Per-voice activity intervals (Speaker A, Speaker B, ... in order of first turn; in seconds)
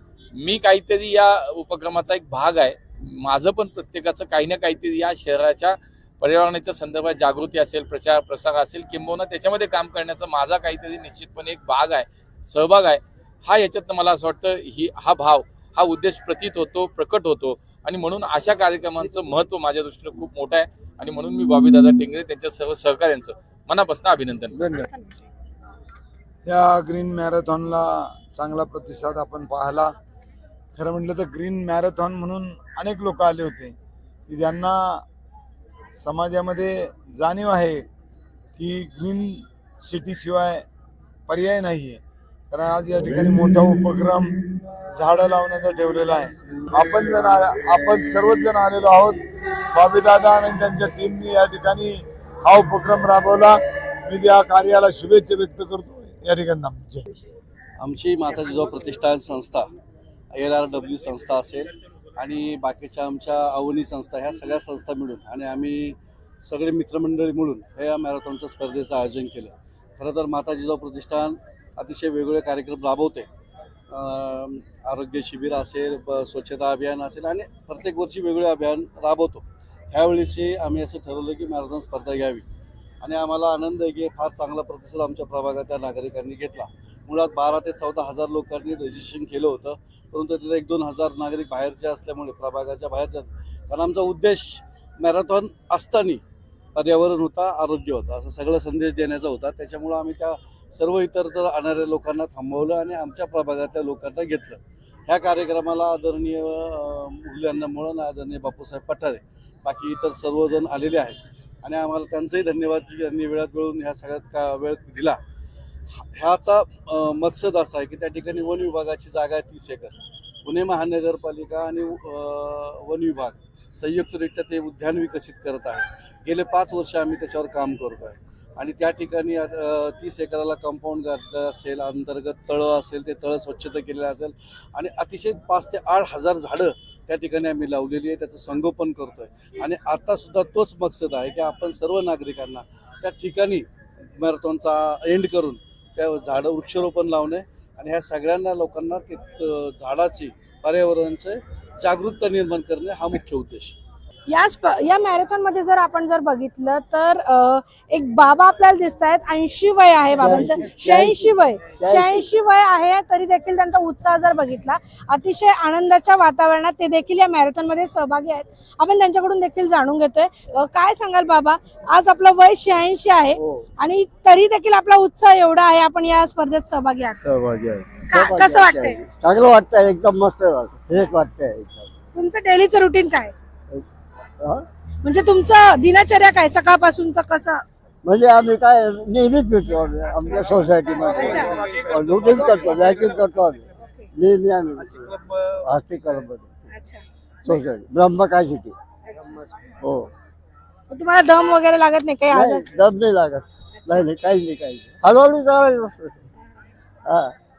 Speaker A: 0.3-24.6
Speaker B: 26.4-29.9, 30.7-33.8, 34.3-35.0, 36.0-37.9, 38.5-40.6, 41.3-44.3, 44.9-49.2, 49.7-57.1
Speaker C: 57.8-59.6, 60.3-73.3, 73.9-82.5, 83.0-96.2, 96.7-115.2, 116.1-143.7, 144.2-153.8
Speaker D: 154.3-177.2, 178.1-179.0, 182.1-183.3, 185.0-187.6, 191.1-191.6, 192.3-192.8, 196.7-197.6, 199.0-199.4, 200.9-202.7, 203.8-204.1
Speaker E: 160.1-162.3, 173.3-173.7, 177.2-181.9, 184.4-184.7, 188.0-196.5, 197.4-198.8, 199.8-200.1, 202.3-206.2, 207.1-207.3